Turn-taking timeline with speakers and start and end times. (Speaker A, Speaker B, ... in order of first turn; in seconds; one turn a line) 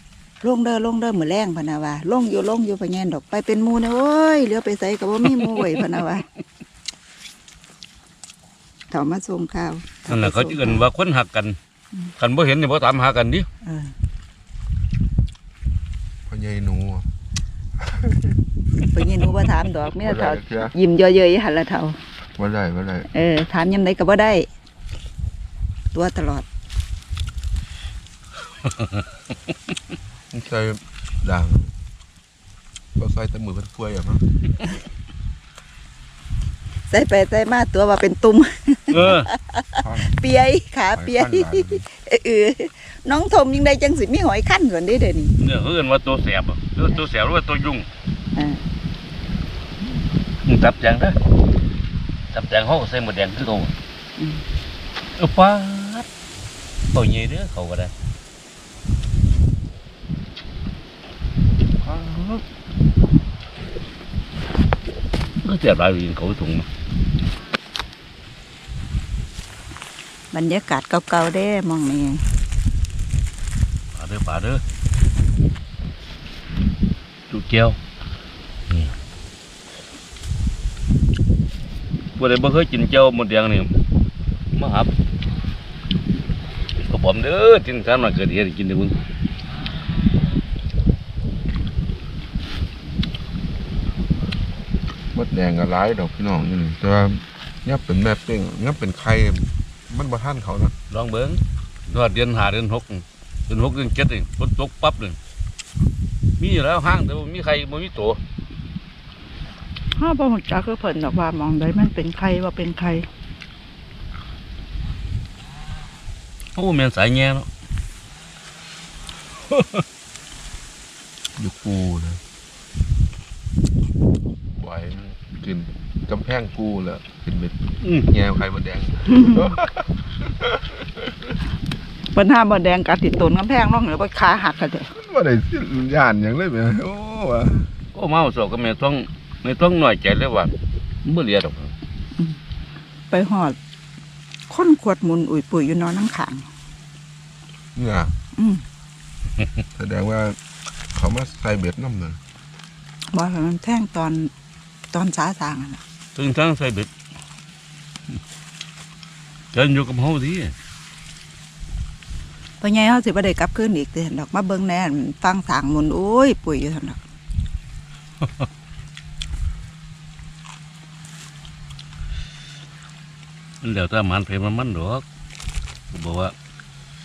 Speaker A: 0.4-6.2
Speaker B: 5.2-5.9
Speaker A: 8.9-10.9
Speaker B: 10.1-11.6
Speaker B: 12.2-13.5
Speaker A: 13.6-13.9
Speaker C: 16.3-17.1
Speaker C: 17.8-18.3
Speaker A: 18.9-22.0
Speaker C: 19.8-20.7
Speaker C: 22.4-23.1
Speaker A: 23.1-24.5
Speaker A: 25.9-26.4
Speaker B: 28.6-28.9
Speaker C: 30.3-31.7
Speaker C: 33.0-34.2
Speaker A: 36.9-45.3
Speaker B: 38.9-39.3
Speaker C: 38.9-39.2
Speaker C: 39.8-41.8
Speaker B: 45.4-47.9
Speaker A: 48.3-48.6
Speaker B: 50.4-51.1
Speaker B: 52.3-53.7
Speaker A: 54.2-54.4
Speaker B: 55.2-56.1
Speaker B: 56.9-57.9
Speaker B: 61.8-62.4
Speaker B: 65.4-66.7
Speaker A: 70.3-72.2
Speaker B: 73.9-74.6
Speaker B: 77.3-77.8
Speaker B: 78.7-78.9
Speaker B: 82.2-83.7
Speaker B: 84.5-84.9
Speaker B: 86.8-89.0
Speaker C: 95.1-100.7
Speaker B: 100.9-105.2
Speaker B: 106.4-108.2
Speaker A: 109.9-113.1
Speaker B: 116.5-117.5
Speaker C: 121.3-122.2
Speaker C: 124.5-129.9
Speaker B: 127.8-128.1
Speaker A: 129.2-129.5
Speaker A: 132.1-134.9
Speaker C: 134.9-137.7
Speaker B: 137.9-140.5
Speaker B: 141.0-141.7
Speaker A: 143.1-143.6
Speaker A: 144.5-146.5
Speaker C: 147.7-148.1
Speaker A: 148.3-148.6
Speaker C: 149.8-150.4
Speaker C: 150.9-152.2
Speaker A: 153.1-154.3
Speaker A: 154.9-155.8
Speaker B: 156.1-156.9
Speaker B: 159.5-160.5
Speaker A: 162.6-167.0
Speaker B: 168.2-168.5
Speaker B: 173.6-175.0
Speaker B: 175.9-176.3